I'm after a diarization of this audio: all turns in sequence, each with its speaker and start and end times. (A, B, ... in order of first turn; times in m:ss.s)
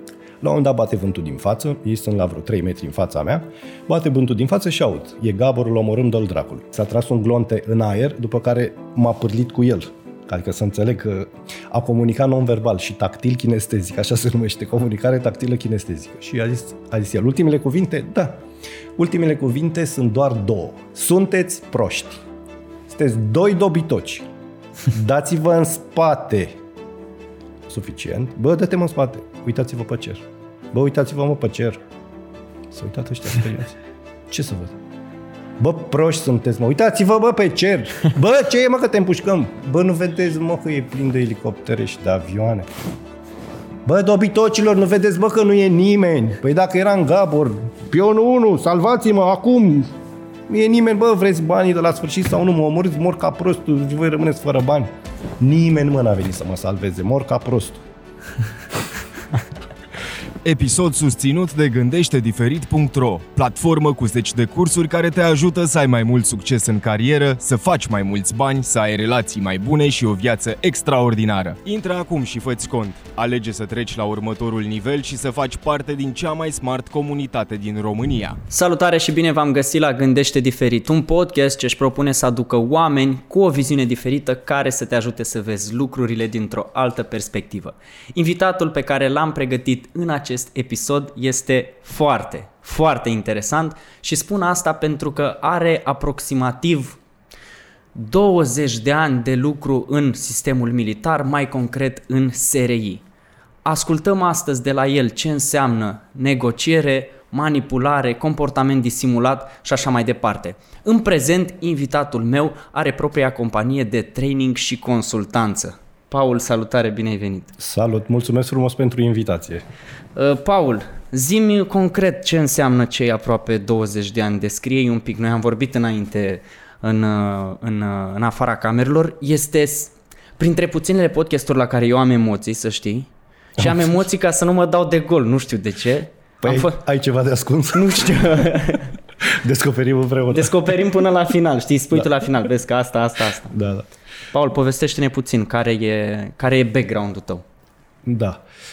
0:00.4-0:18.4 A
0:19.0-0:22.2 A
0:22.9-0:24.3 A
0:24.9-0:26.6 A
0:27.7-0:31.8 A
0:32.7-0:33.8 A
0:34.3-0:34.8 A
0:35.6-0:42.7 A
0:43.8-0:49.9 A
0:50.5-0:54.9 A
0:55.4-0:57.8 A
1:00.4-1:18.4 B
1:18.5-1:37.0 C
1:38.0-1:43.0 C
1:43.6-1:57.6 C
1:57.6-1:59.6 A
2:00.2-2:16.8 C
2:13.6-2:13.9 A
2:16.4-2:18.6 A
2:17.7-2:18.9 C
2:19.2-2:20.8 A
2:20.3-2:23.5 C
2:21.9-2:22.5 A
2:23.5-2:23.9 A
2:24.3-2:27.4 C
2:28.0-2:28.4 A